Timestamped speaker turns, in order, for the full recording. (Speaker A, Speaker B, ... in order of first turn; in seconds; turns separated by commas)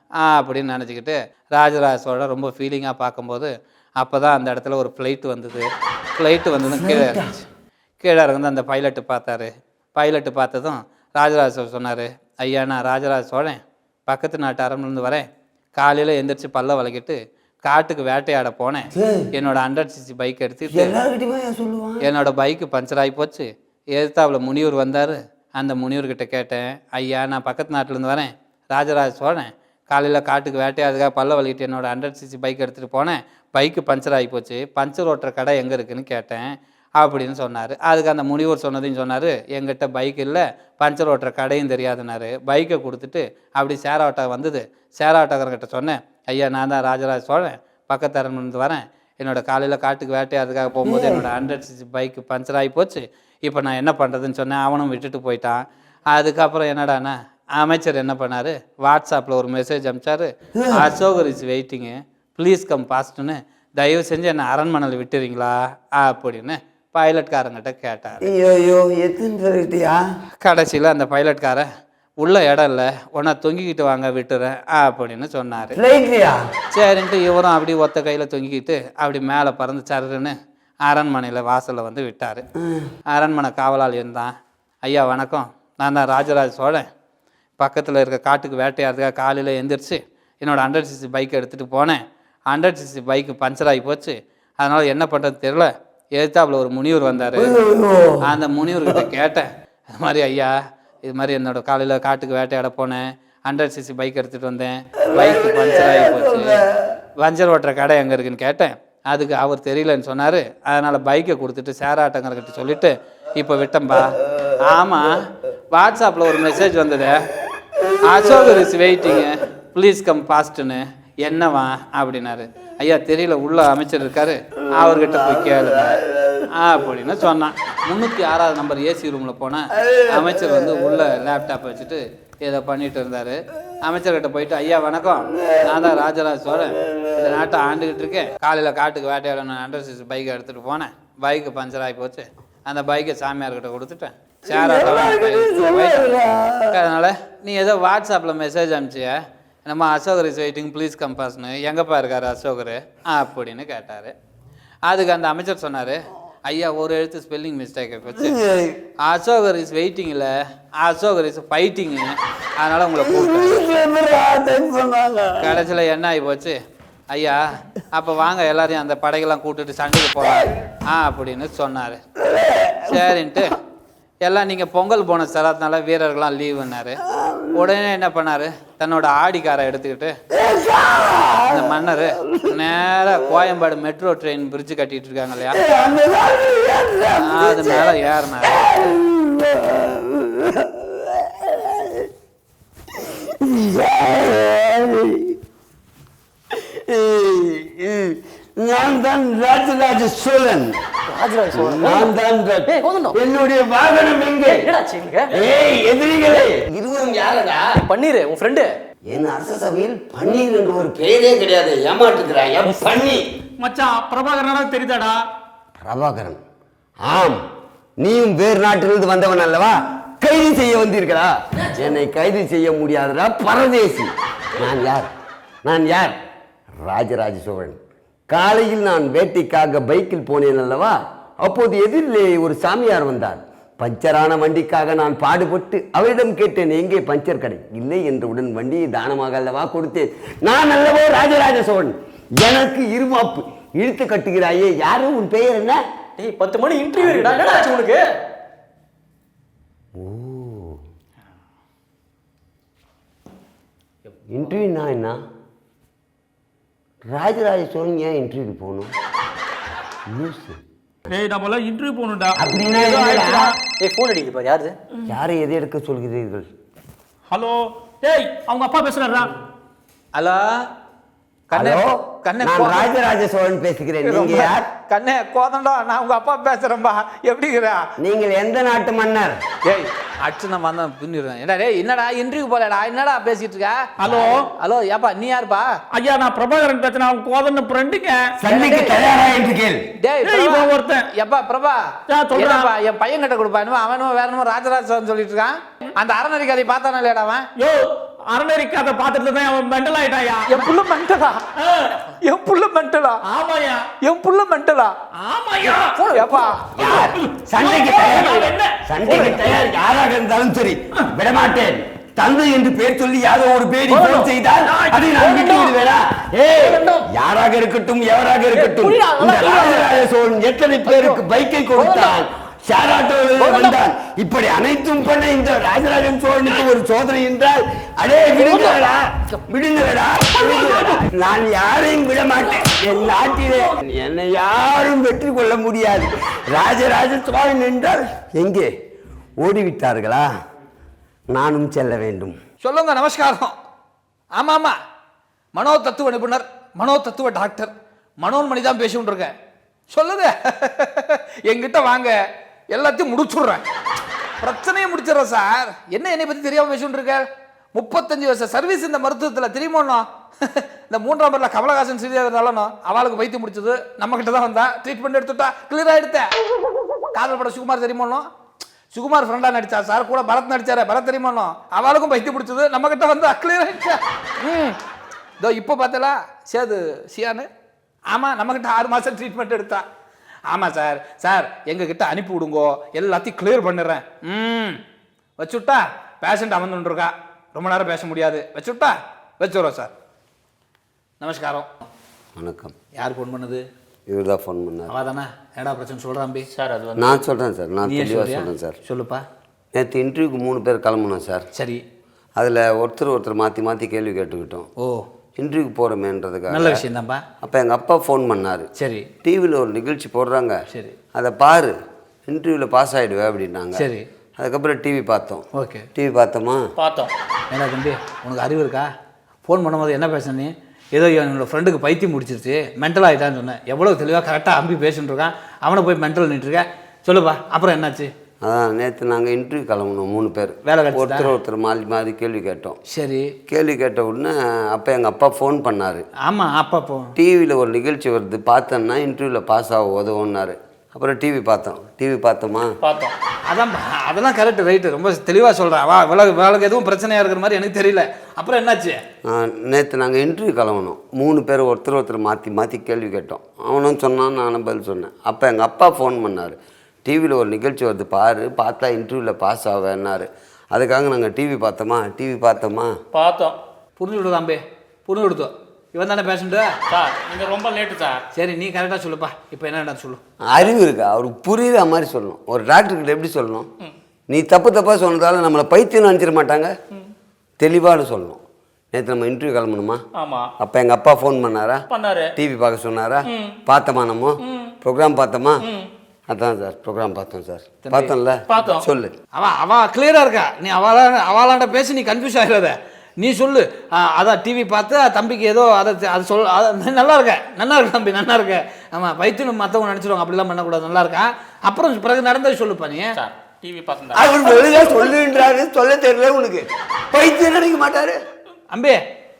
Speaker A: 0.2-7.2, Speaker B: 6.7-7.4, Speaker A: 8.0-20.9, Speaker B: 18.9-19.3, Speaker B: 20.7-22.0, Speaker A: 22.0-55.6, Speaker B: 50.8-51.3, Speaker A: 56.1-68.3, Speaker B: 60.5-60.9, Speaker B: 68.2-70.0, Speaker A: 70.4-71.7, Speaker A: 72.2-75.8, Speaker B: 75.7-76.4, Speaker A: 76.7-82.4, Speaker B: 82.6-82.9, Speaker A: 83.1-84.3, Speaker A: 84.8-86.9, Speaker A: 87.6-97.5, Speaker B: 97.3-98.2, Speaker A: 98.2-100.5, Speaker A: 101.0-106.6, Speaker B: 105.1-106.9, Speaker A: 107.2-115.1, Speaker B: 113.9-114.5, Speaker A: 115.7-117.2, Speaker B: 117.8-119.2, Speaker A: 118.0-126.0, Speaker B: 124.6-126.5, Speaker A: 126.5-146.1, Speaker B: 129.7-131.0, Speaker B: 135.4-136.0, Speaker B: 136.8-137.4, Speaker B: 144.4-146.8, Speaker A: 146.7-154.1, Speaker A: 154.9-158.4, Speaker B: 158.2-158.8, Speaker A: 159.0-163.6, Speaker B: 163.0-165.6, Speaker A: 165.4-166.6, Speaker A: 167.1-167.4, Speaker A: 167.9-172.0, Speaker B: 172.2-173.4, Speaker A: 172.9-173.5, Speaker A: 174.2-177.0, Speaker B: 177.1-177.7, Speaker A: 177.5-180.2, Speaker B: 180.3-182.6, Speaker A: 181.5-185.6, Speaker B: 185.5-192.1, Speaker A: 187.2-188.7, Speaker B: 192.9-195.4, Speaker B: 196.5-200.8, Speaker C: 201.1-202.1, Speaker B: 201.5-204.7, Speaker C: 202.7-203.2, Speaker C: 204.4-205.3, Speaker B: 205.3-207.6, Speaker C: 207.8-208.7, Speaker B: 209.1-213.2, Speaker D: 213.6-215.2, Speaker B: 215.8-216.4, Speaker B: 217.0-217.5, Speaker B: 218.0-225.1, Speaker B: 225.6-226.2, Speaker B: 226.8-227.8, Speaker B: 228.3-245.8, Speaker C: 246.2-248.0, Speaker B: 249.9-250.8, Speaker B: 254.3-255.2, Speaker B: 257.1-258.9, Speaker B: 260.1-260.6, Speaker D: 261.1-263.5, Speaker B: 262.4-263.5, Speaker C: 263.8-264.8, Speaker B: 265.1-266.5, Speaker D: 267.3-269.3, Speaker E: 270.1-270.4, Speaker E: 271.5-272.9, Speaker B: 271.6-274.6, Speaker E: 274.0-277.8, Speaker B: 278.0-279.4, Speaker E: 279.6-283.8, Speaker D: 284.0-284.4, Speaker E: 284.6-285.7, Speaker D: 285.9-288.2, Speaker B: 288.4-289.8, Speaker E: 290.0-297.4, Speaker D: 290.2-291.0, Speaker D: 292.1-292.7, Speaker D: 297.6-300.7, Speaker E: 300.5-301.4, Speaker D: 301.6-302.1, Speaker E: 302.2-303.2, Speaker D: 303.3-303.8, Speaker E: 304.0-304.9, Speaker D: 305.2-309.4, Speaker E: 306.1-306.7, Speaker B: 306.8-338.7, Speaker D: 313.9-315.7, Speaker C: 318.5-320.0, Speaker C: 320.9-321.2, Speaker C: 321.8-322.1, Speaker C: 328.4-328.7, Speaker B: 339.4-340.3, Speaker B: 341.3-342.4, Speaker E: 342.6-343.5, Speaker E: 344.4-344.8, Speaker E: 345.5-349.3, Speaker E: 349.9-352.2, Speaker E: 352.7-353.6, Speaker E: 354.4-366.3, Speaker E: 367.1-368.3, Speaker E: 368.9-374.8, Speaker E: 375.4-377.5, Speaker E: 378.1-379.8, Speaker E: 380.5-384.8, Speaker E: 385.4-389.9, Speaker E: 391.2-391.7, Speaker B: 392.4-392.7, Speaker E: 392.9-393.6, Speaker B: 394.1-394.9, Speaker E: 394.9-396.5, Speaker D: 396.5-397.2, Speaker B: 397.0-398.8, Speaker E: 397.9-399.2, Speaker B: 399.7-401.5, Speaker E: 401.6-401.8, Speaker B: 402.4-404.7, Speaker E: 404.8-405.0, Speaker B: 405.4-406.8, Speaker E: 406.5-407.2, Speaker B: 407.4-408.7, Speaker E: 408.8-409.1, Speaker B: 409.2-410.6, Speaker B: 411.1-411.7, Speaker B: 412.3-416.6, Speaker E: 413.7-414.0, Speaker E: 415.6-415.9, Speaker D: 416.8-417.1, Speaker E: 417.5-418.9, Speaker E: 419.4-428.1, Speaker B: 428.4-432.8, Speaker E: 430.6-431.3, Speaker E: 432.9-433.3, Speaker B: 433.5-436.1, Speaker E: 436.2-437.1, Speaker B: 437.2-442.7, Speaker D: 442.8-443.1, Speaker E: 443.5-449.0, Speaker B: 449.3-462.9, Speaker D: 463.1-463.6, Speaker E: 464.0-466.7, Speaker D: 466.9-468.2, Speaker E: 468.4-470.2, Speaker B: 470.5-473.7, Speaker B: 474.3-476.7, Speaker B: 477.6-478.4, Speaker B: 478.9-480.0, Speaker D: 480.2-480.5, Speaker B: 480.6-481.8, Speaker D: 481.9-482.3, Speaker B: 482.4-485.6, Speaker D: 483.3-483.6, Speaker D: 484.4-484.7, Speaker D: 485.6-485.9, Speaker B: 486.3-489.1, Speaker E: 487.9-488.1, Speaker D: 488.5-488.9, Speaker E: 489.3-503.2, Speaker D: 503.2-504.3, Speaker B: 504.1-508.2, Speaker E: 508.7-509.0